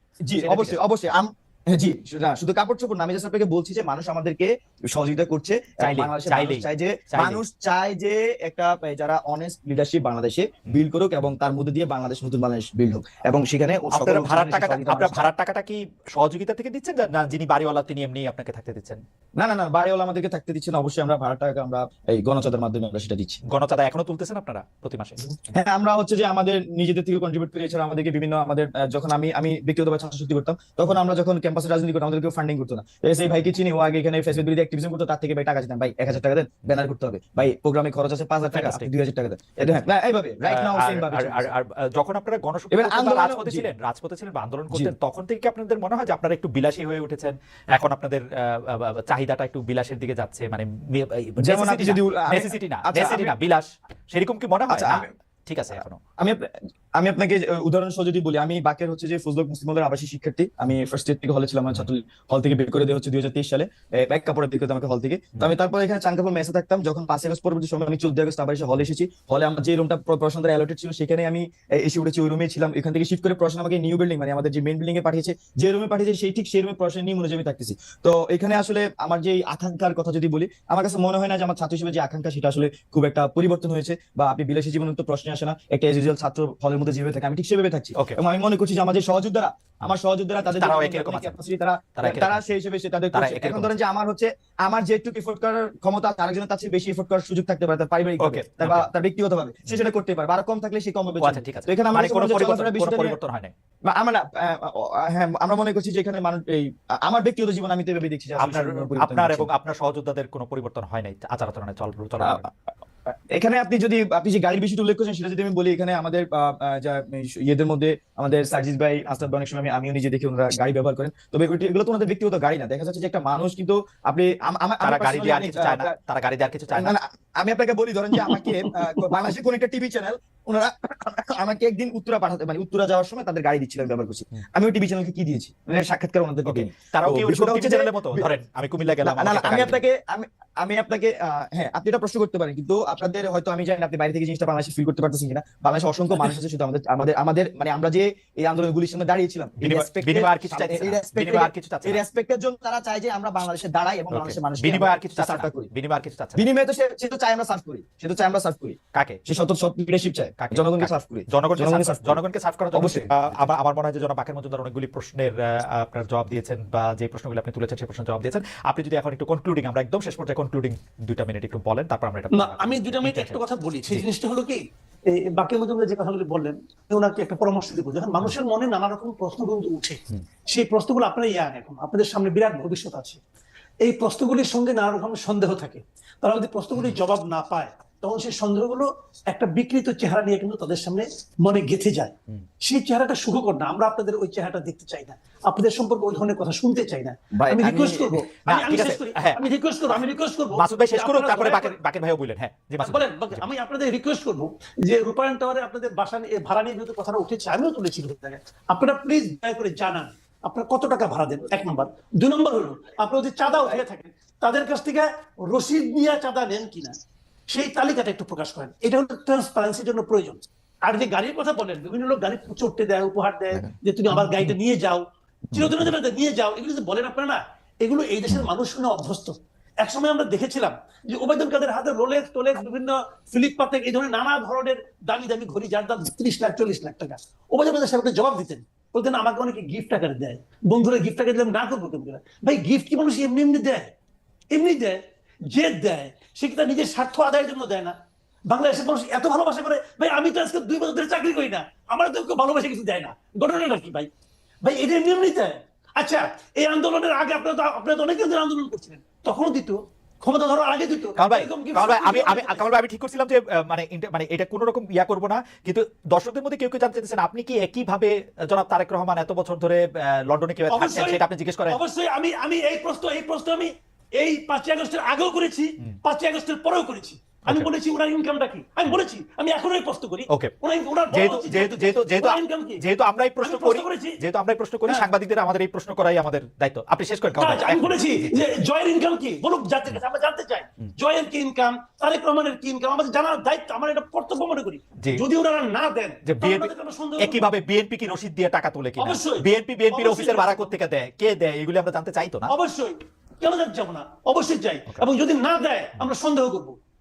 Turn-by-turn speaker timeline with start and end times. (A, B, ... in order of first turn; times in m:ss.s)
0:00.3-0:15.3 A
0:00.4-0:00.8 B
0:05.8-0:07.4 B
0:13.9-0:19.0 B
0:19.4-0:23.4 A
0:23.5-0:25.2 B
0:25.5-0:41.5 A
0:38.5-0:38.9 B
0:40.5-0:56.0 B
0:42.7-0:43.7 A
0:51.4-0:53.4 A
0:54.7-0:55.1 A
0:56.2-1:43.2 A
1:30.4-1:31.4 B
1:32.0-1:32.4 B
1:33.1-1:33.7 B
1:38.2-1:38.9 B
1:41.2-1:43.5 B
1:43.9-1:49.5 A
1:48.4-1:52.4 B
1:52.2-1:52.5 A
1:53.3-2:06.0 A
2:04.8-2:07.0 B
2:06.8-2:18.3 A
2:08.2-2:08.9 C
2:16.4-2:19.8 B
2:19.0-2:35.7 A
2:29.6-2:32.0 B
2:34.1-2:36.4 B
2:36.4-2:42.2 A
2:38.9-2:39.2 B
2:40.4-2:54.0 B
2:42.7-2:43.1 A
2:52.3-3:03.2 C
3:03.8-3:21.8 C
3:17.3-3:18.2 A
3:18.5-3:19.4 B
3:20.5-3:23.5 B
3:22.8-3:37.0 C
3:37.5-4:03.9 C
3:43.5-3:44.5 A
4:04.5-4:08.0 C
4:08.5-4:14.1 C
4:14.6-4:22.7 C
4:21.2-4:31.8 B
4:30.7-4:42.8 C
4:41.1-4:48.5 B
4:43.4-4:44.2 C
4:47.4-4:57.4 C
4:56.2-5:02.5 B
4:59.0-5:00.7 C
5:02.5-5:06.8 C